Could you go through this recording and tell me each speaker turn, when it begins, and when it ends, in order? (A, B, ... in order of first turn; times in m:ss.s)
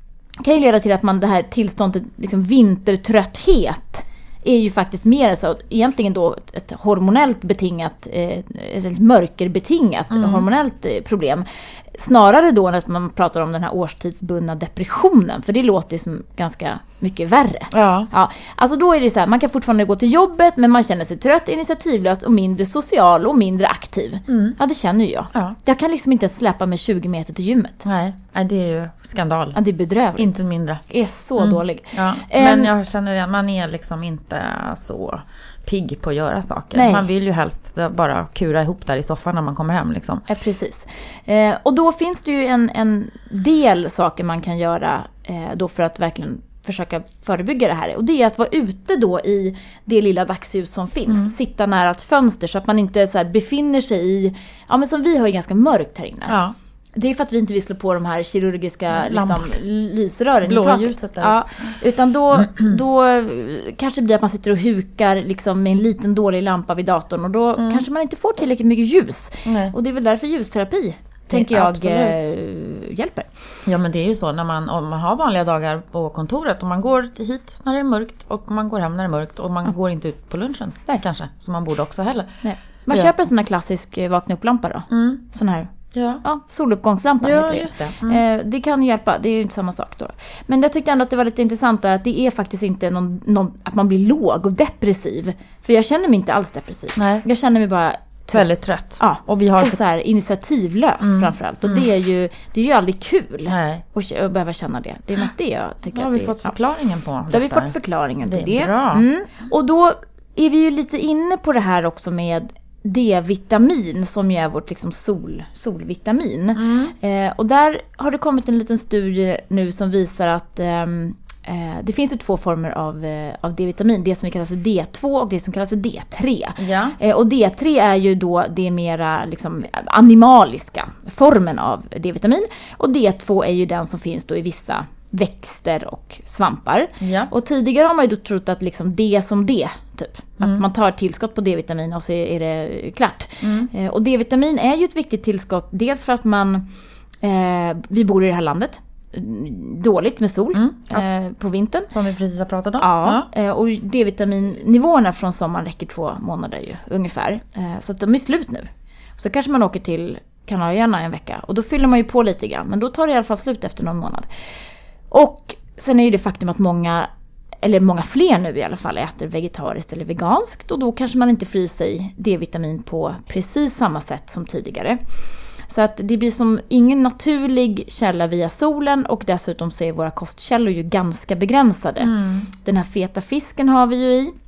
0:00.4-0:27.8 A
0:10.1-0:10.4 B
0:17.7-0:18.1 B
0:24.3-0:24.6 B
0:27.8-0:29.6 B
0:29.5-0:30.3 A
0:30.2-0:30.8 B
0:30.9-0:32.7 A
0:31.4-0:40.2 B
0:36.7-0:37.0 A
0:40.3-0:56.4 A
0:51.1-0:51.3 B
0:56.3-0:56.5 B
0:57.0-1:13.3 A
0:58.9-0:59.6 B
1:00.4-1:01.7 B
1:02.3-1:02.8 B
1:07.6-1:07.8 B
1:09.4-1:09.7 B
1:11.3-1:12.3 B
1:13.6-1:22.3 B
1:22.4-1:25.7 A
1:24.9-1:25.2 B
1:25.9-1:26.2 B
1:26.2-1:38.5 A
1:27.2-1:28.2 B
1:37.0-1:37.2 B
1:38.3-1:39.8 B
1:39.0-1:46.5 A
1:41.0-1:41.8 B
1:43.5-1:43.8 B
1:45.9-1:49.0 B
1:47.3-2:26.6 A
1:56.5-1:56.9 B
2:06.6-2:07.0 B
2:17.0-2:17.3 B
2:23.4-2:23.7 B
2:27.2-2:31.9 A
2:30.5-2:31.0 B
2:31.9-2:33.3 B
2:32.8-2:44.2 A
2:45.1-2:47.1 A
2:47.6-3:04.3 A
3:02.0-3:02.5 B